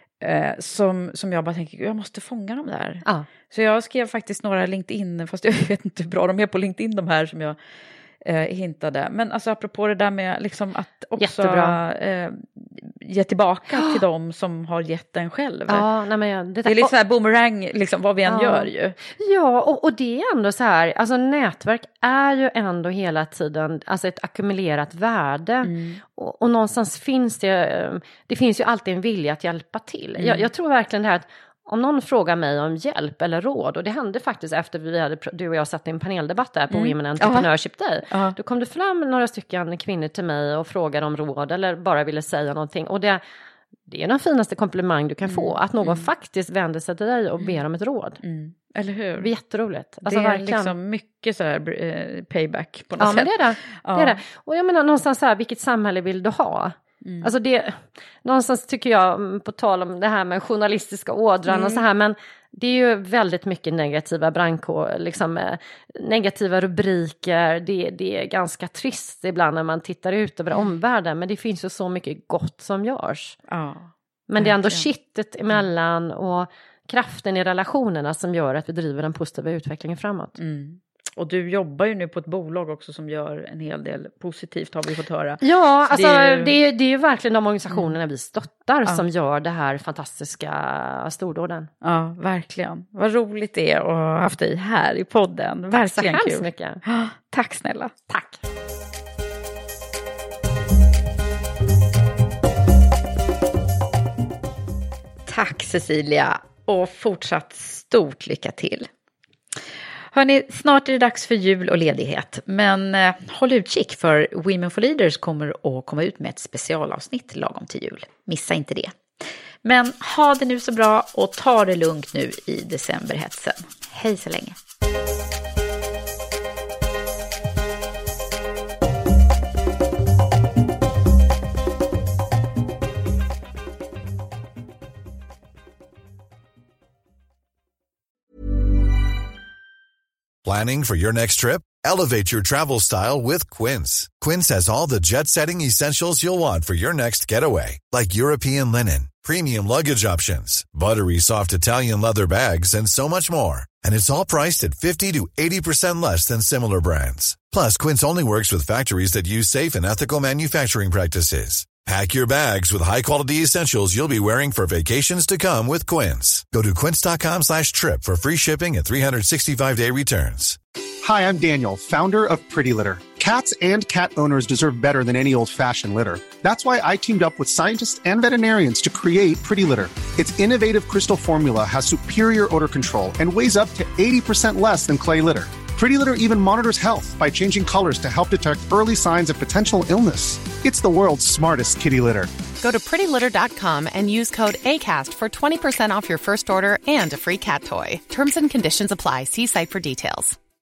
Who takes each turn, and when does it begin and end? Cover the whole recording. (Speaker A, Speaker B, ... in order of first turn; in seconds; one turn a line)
Speaker A: 0.2-7.5
Speaker A: 8.2-15.8
Speaker B: 11.2-11.8
Speaker B: 15.7-16.9
Speaker A: 16.6-18.9
Speaker B: 18.2-43.2
Speaker A: 25.6-26.0
Speaker A: 30.2-30.5
Speaker A: 36.7-37.5
Speaker A: 38.1-38.4
Speaker B: 43.9-48.2
Speaker A: 45.2-46.1
Speaker A: 48.2-49.3
Speaker B: 49.2-50.7
Speaker A: 50.0-54.2
Speaker B: 53.0-73.4
Speaker A: 57.0-57.3
Speaker A: 61.5-61.8
Speaker A: 73.5-74.9
Speaker B: 74.3-80.3
Speaker A: 80.4-86.5
Speaker B: 85.4-91.7
Speaker A: 87.7-87.9
Speaker A: 91.8-98.0
Speaker B: 95.7-96.8
Speaker B: 98.1-98.4
Speaker A: 105.3-108.9
Speaker A: 110.1-119.0
Speaker A: 119.6-124.5
Speaker C: 140.4-170.6
Speaker D: 171.0-192.3
Speaker E: 192.6-200.3